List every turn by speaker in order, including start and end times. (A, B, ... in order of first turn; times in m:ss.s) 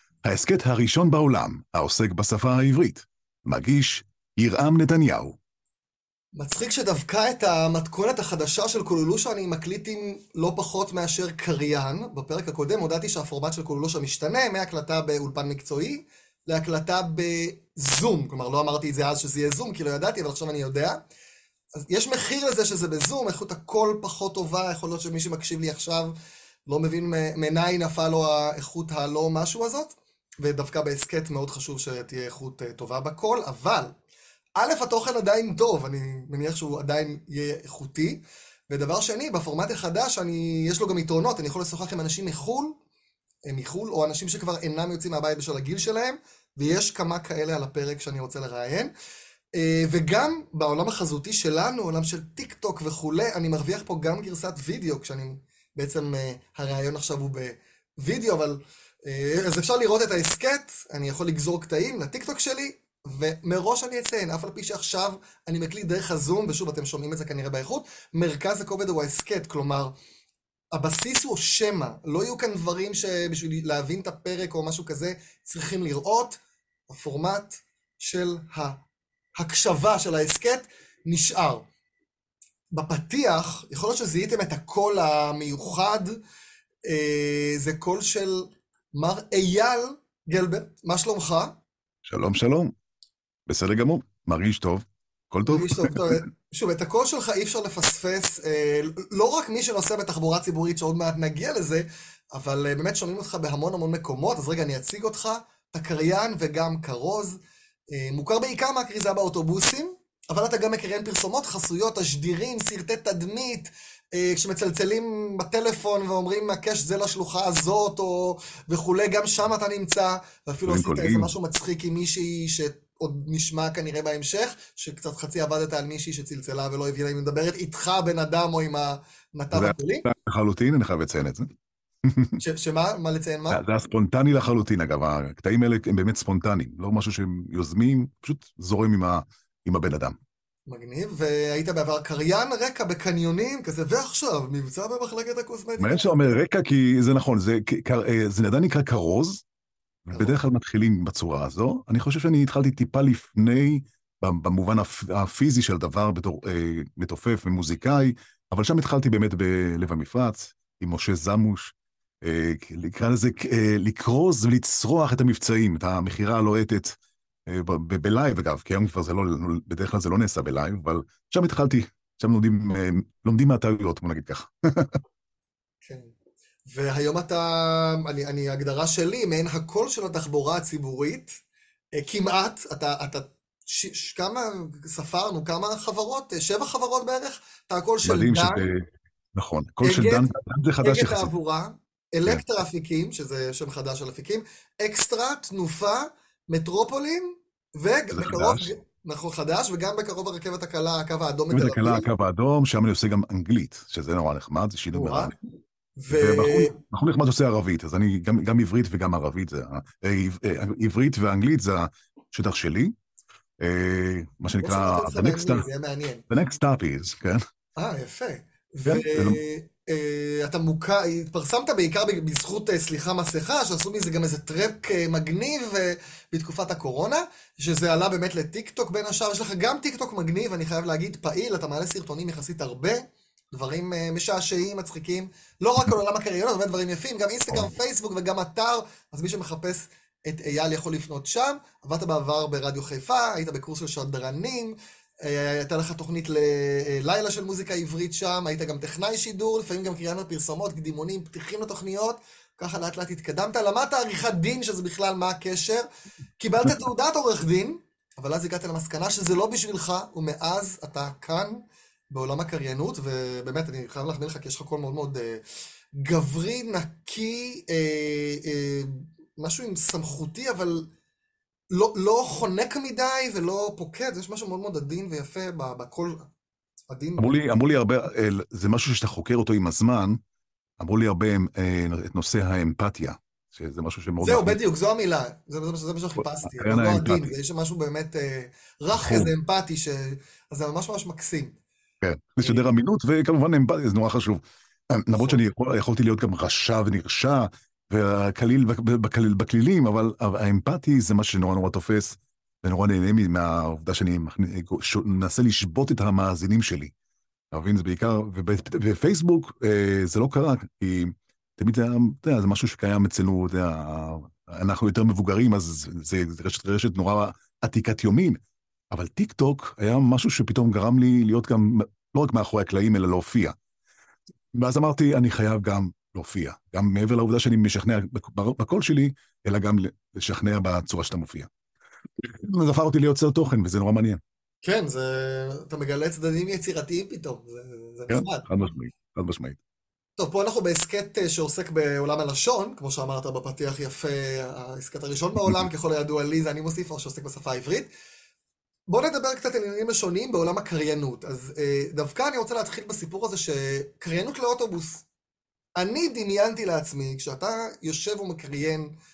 0:00.2-0:05.4 A
0:06.4-0:21.0 B
0:21.8-0:26.1 B
0:26.6-0:33.9 B
0:34.6-0:42.8 B
0:43.4-0:48.9 B
0:49.6-1:09.9 B
1:10.7-1:18.8 B
1:19.4-1:21.7 B
1:22.7-1:26.1 B
1:26.8-1:31.6 B
1:32.0-1:32.7 A
1:33.5-1:36.2 A
1:35.4-1:47.4 B
1:47.9-2:10.0 B
2:00.7-2:01.3 A
2:09.5-2:11.5 A
2:12.0-2:12.4 A
2:12.4-2:13.6 B
2:13.5-2:20.2 A
2:20.7-2:26.4 B
2:25.8-2:29.4 A
2:30.0-2:55.0 A
2:30.1-2:30.4 B
2:55.8-2:56.1 B
2:56.7-3:01.3 B
3:02.0-3:08.6 B
3:08.0-3:11.3 A
3:09.8-3:10.3 B
3:10.8-3:22.1 B
3:18.1-3:18.7 A
3:21.5-3:25.3 A
3:24.9-3:25.3 B
3:26.0-3:26.8 B
3:26.1-3:32.9 A
3:33.6-3:35.6 A
3:34.6-3:36.2 B
3:36.3-3:37.4 A
3:37.8-4:15.8 B
3:38.8-3:39.4 A
4:16.4-4:30.9 B
4:31.7-4:36.3 B
4:36.9-4:37.3 B
4:37.2-4:40.2 A
4:40.8-4:44.6 A
4:44.2-4:51.6 B
4:46.2-4:47.4 A
4:48.9-4:49.3 A
4:52.0-5:06.9 A
4:52.4-4:52.7 B
4:55.1-4:55.4 B
5:07.5-5:18.4 A
5:18.9-5:23.5 A
5:24.5-5:31.5 A
5:32.2-5:34.2 A
5:34.6-5:38.4 B
5:38.1-5:39.6 A
5:40.2-5:47.9 B
5:48.9-5:55.0 B
5:55.8-5:58.9 B